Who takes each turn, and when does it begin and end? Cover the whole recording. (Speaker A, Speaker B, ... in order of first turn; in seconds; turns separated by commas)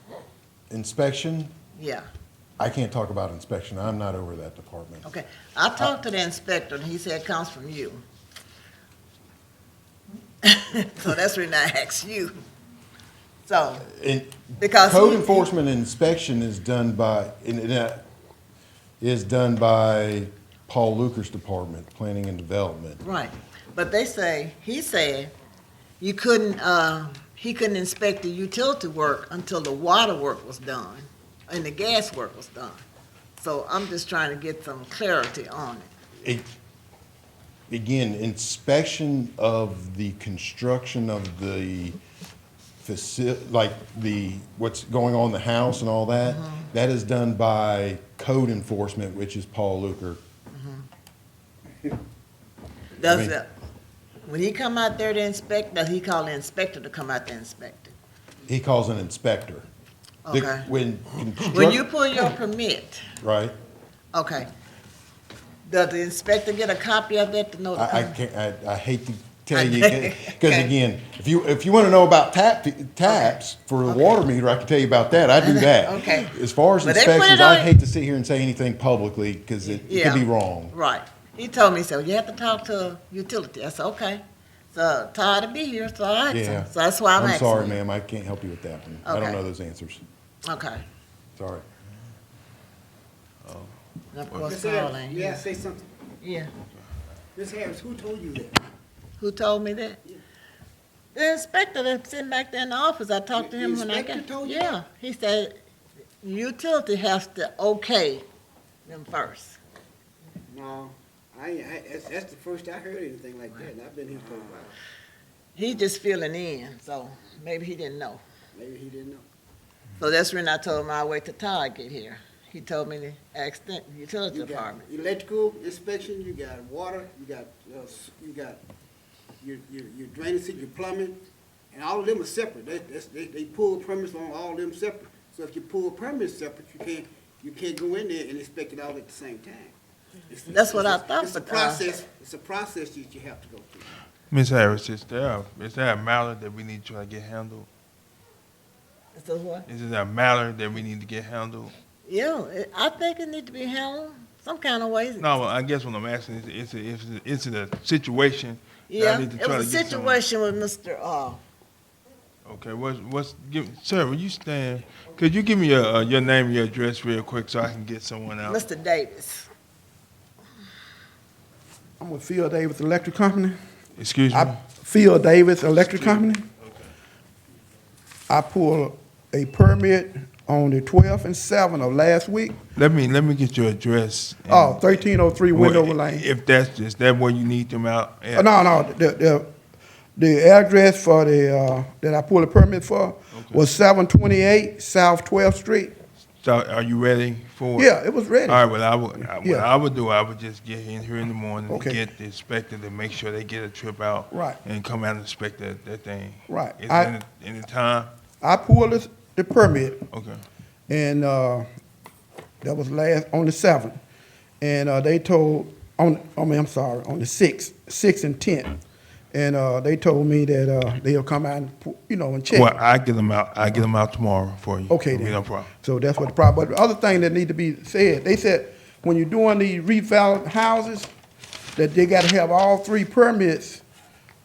Speaker A: 0.7-1.5, Speaker B: 1.8-2.0, Speaker A: 2.6-5.1, Speaker B: 5.0-8.0, Speaker B: 10.4-12.3, Speaker B: 13.4-13.9, Speaker A: 13.8-18.1, Speaker B: 14.6-15.5, Speaker A: 19.0-23.0, Speaker B: 23.0-25.3, Speaker B: 26.0-32.8, Speaker B: 33.4-35.9, Speaker A: 36.2-36.5, Speaker A: 37.7-42.0, Speaker A: 42.8-50.2, Speaker B: 46.2-46.7, Speaker B: 50.5-50.9, Speaker B: 53.0-53.5, Speaker A: 53.0-53.4, Speaker B: 54.2-57.9, Speaker A: 58.5-59.7, Speaker B: 60.2-60.7, Speaker A: 60.3-61.8, Speaker B: 61.5-63.1, Speaker A: 63.2-63.5, Speaker B: 64.1-64.5, Speaker B: 65.7-68.2, Speaker A: 67.8-80.8, Speaker B: 69.5-70.7, Speaker B: 73.0-74.2, Speaker B: 75.4-77.7, Speaker B: 79.6-87.8, Speaker A: 86.3-90.0, Speaker B: 89.0-89.4, Speaker B: 90.5-90.8, Speaker A: 91.4-91.7, Speaker C: 93.4-93.8, Speaker B: 94.1-95.5, Speaker D: 94.4-95.9, Speaker B: 96.2-96.5, Speaker D: 97.3-98.6, Speaker B: 99.2-100.0, Speaker B: 101.1-105.6, Speaker D: 103.3-104.8, Speaker B: 106.2-108.2, Speaker B: 108.9-109.6, Speaker D: 110.5-114.8, Speaker B: 115.5-118.2, Speaker D: 118.5-119.2, Speaker B: 120.0-124.9, Speaker D: 124.3-128.6, Speaker D: 129.4-139.7, Speaker D: 140.3-143.9, Speaker B: 140.5-141.9, Speaker C: 144.3-147.7, Speaker B: 149.2-149.7, Speaker C: 149.7-151.7, Speaker B: 152.1-155.3, Speaker C: 155.2-160.2, Speaker B: 158.9-161.4, Speaker C: 162.5-168.6, Speaker B: 168.4-169.5, Speaker E: 172.0-173.6, Speaker C: 174.0-174.6, Speaker E: 174.3-176.4, Speaker C: 175.8-176.9, Speaker E: 178.3-182.6, Speaker C: 182.8-188.5, Speaker E: 184.5-186.3, Speaker E: 188.3-189.5, Speaker E: 190.2-195.9, Speaker C: 193.3-193.7, Speaker C: 196.4-197.9, Speaker E: 197.8-198.7, Speaker C: 198.5-208.1, Speaker E: 199.2-199.7, Speaker E: 201.7-202.0, Speaker E: 204.3-204.6, Speaker E: 206.5-207.2, Speaker E: 208.4-210.1, Speaker C: 210.1-210.4, Speaker E: 210.9-211.7, Speaker E: 212.6-214.0, Speaker E: 214.6-218.8, Speaker E: 219.3-222.8, Speaker C: 222.5-225.7, Speaker E: 224.9-231.1, Speaker E: 231.8-233.8